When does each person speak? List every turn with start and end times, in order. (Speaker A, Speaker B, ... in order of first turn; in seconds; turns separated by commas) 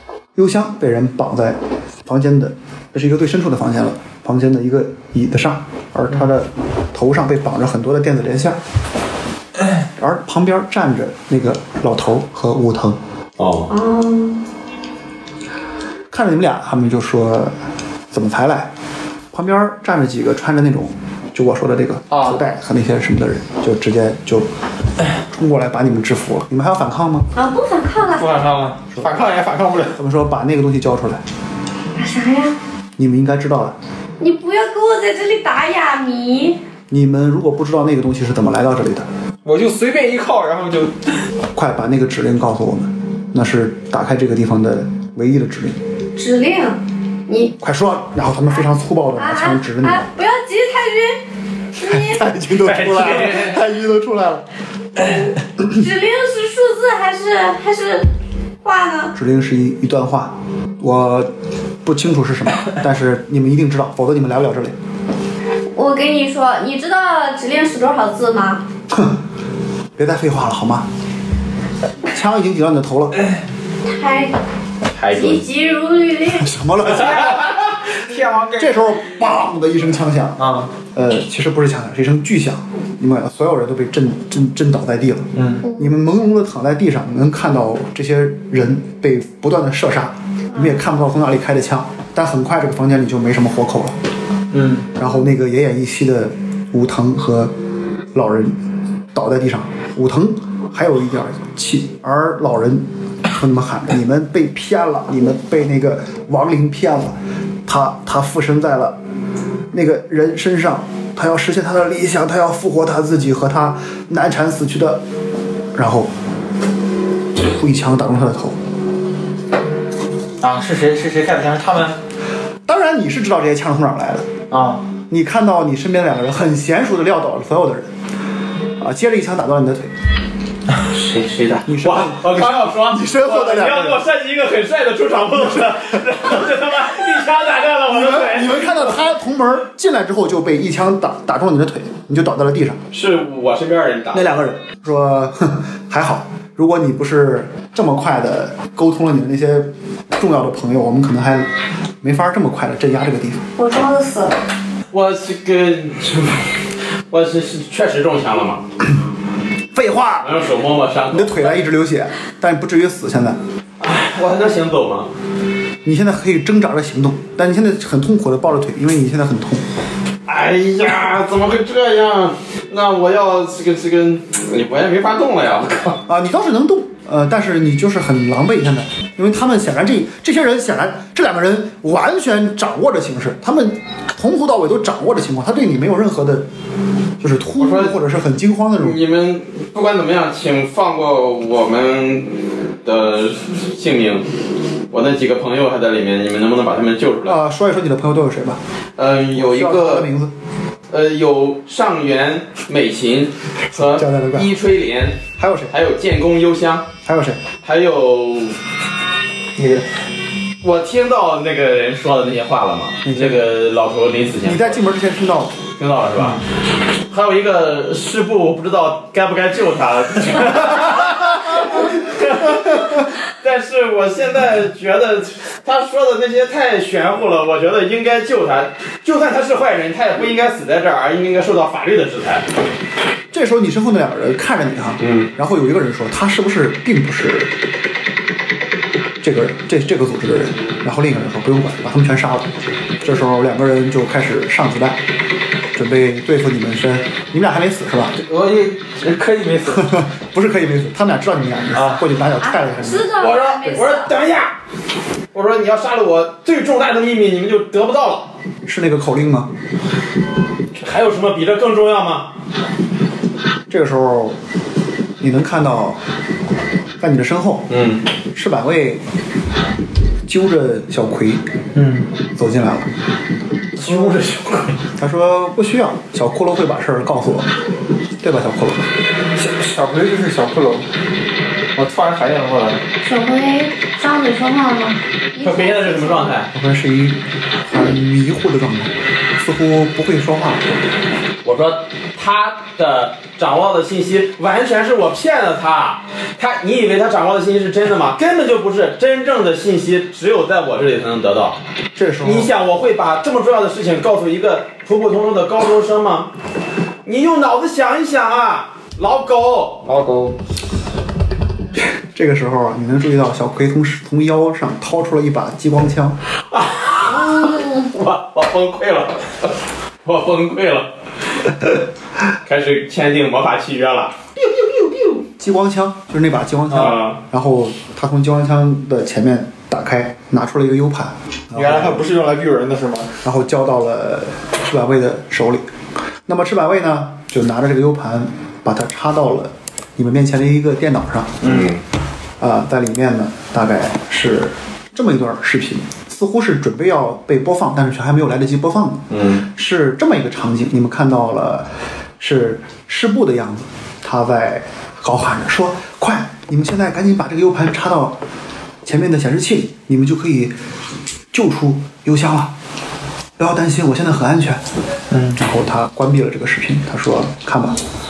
Speaker A: 0.3-8.6, Speaker A: 10.0-13.0, Speaker B: 13.4-13.7, Speaker C: 13.7-14.4, Speaker A: 16.1-17.6, Speaker A: 18.1-18.7, Speaker A: 19.3-24.5, Speaker D: 22.1-22.4, Speaker A: 25.2-27.3, Speaker C: 27.3-28.4, Speaker D: 28.2-30.0, Speaker A: 28.9-29.2, Speaker A: 30.0-31.2, Speaker C: 31.9-32.6, Speaker A: 33.0-33.8, Speaker C: 34.2-36.6, Speaker A: 36.9-39.1, Speaker D: 39.4-41.2, Speaker A: 41.5-45.8, Speaker C: 46.2-47.5, Speaker A: 47.6-50.1, Speaker C: 49.2-51.2, Speaker C: 51.8-52.2, Speaker A: 51.8-54.5, Speaker B: 52.6-53.6, Speaker C: 55.1-58.1, Speaker C: 58.6-59.1, Speaker A: 59.1-61.3, Speaker A: 61.8-64.8, Speaker C: 65.7-68.6, Speaker A: 68.9-69.2, Speaker A: 70.0-70.9, Speaker A: 72.1-73.3, Speaker C: 73.8-74.4, Speaker B: 74.9-75.4, Speaker C: 75.1-76.5, Speaker A: 76.3-77.5, Speaker D: 76.8-78.8, Speaker A: 78.6-94.0, Speaker D: 80.4-80.7, Speaker D: 85.4-85.7, Speaker D: 94.5-94.9, Speaker A: 95.0-97.5, Speaker A: 98.1-98.6, Speaker A: 99.1-109.0, Speaker A: 109.7-115.0, Speaker A: 115.7-116.1, Speaker A: 117.4-118.6, Speaker D: 120.4-122.0, Speaker A: 122.7-124.3, Speaker D: 124.5-124.8, Speaker A: 125.1-127.9, Speaker A: 128.8-129.9, Speaker B: 130.8-138.9, Speaker A: 131.7-134.0, Speaker A: 135.5-135.8, Speaker A: 137.9-142.8, Speaker B: 142.9-144.3, Speaker A: 144.1-151.5, Speaker A: 152.0-153.4, Speaker C: 153.6-154.4, Speaker B: 154.9-158.6, Speaker A: 159.7-160.4, Speaker B: 160.2-161.4, Speaker A: 161.1-163.4, Speaker B: 163.8-165.1, Speaker A: 165.8-169.7, Speaker B: 170.3-176.0, Speaker A: 176.0-186.5, Speaker A: 187.2-189.0, Speaker B: 187.6-188.0, Speaker B: 188.8-194.3, Speaker B: 194.9-197.4, Speaker A: 197.2-198.6, Speaker B: 199.0-200.1, Speaker A: 199.3-200.3, Speaker B: 200.9-206.9, Speaker A: 203.8-204.5, Speaker A: 205.4-205.7, Speaker A: 207.1-207.4, Speaker B: 207.6-208.6, Speaker D: 209.6-209.9, Speaker B: 210.6-214.8, Speaker A: 213.1-213.4, Speaker A: 214.4-215.6, Speaker B: 215.8-216.4, Speaker B: 217.1-232.5, Speaker A: 233.3-237.5, Speaker B: 235.0-235.3, Speaker A: 239.2-242.5, Speaker A: 243.0-245.0, Speaker A: 245.7-248.2, Speaker D: 248.2-249.9, Speaker A: 249.7-253.1, Speaker D: 251.8-252.1, Speaker C: 252.4-254.1, Speaker B: 253.2-254.6, Speaker B: 255.3-258.3, Speaker A: 258.6-259.5, Speaker B: 260.8-262.3, Speaker A: 263.7-264.4, Speaker A: 265.2-266.0, Speaker A: 267.0-267.7, Speaker B: 267.7-268.0, Speaker A: 268.3-269.0, Speaker A: 270.3-271.4, Speaker D: 271.8-272.1, Speaker A: 272.4-272.9, Speaker B: 273.8-274.8, Speaker A: 275.0-277.5, Speaker A: 278.2-278.9, Speaker D: 279.4-280.9, Speaker D: 281.8-282.8, Speaker C: 283.0-286.3, Speaker B: 285.4-286.5, Speaker A: 286.5-290.8, Speaker B: 291.4-301.6, Speaker A: 302.0-302.5, Speaker B: 302.2-306.3, Speaker B: 307.1-309.8, Speaker D: 309.9-310.4, Speaker A: 311.8-316.2, Speaker B: 316.5-320.9, Speaker B: 322.4-324.2, Speaker A: 324.4-332.1, Speaker D: 326.7-327.0, Speaker B: 326.7-327.2, Speaker D: 331.5-333.2, Speaker A: 333.2-335.7, Speaker A: 336.3-341.6, Speaker B: 341.4-341.8, Speaker A: 342.4-358.2, Speaker B: 349.1-349.4, Speaker A: 358.8-360.6, Speaker A: 361.3-362.5, Speaker A: 363.4-364.6, Speaker D: 365.1-365.4, Speaker A: 365.4-367.8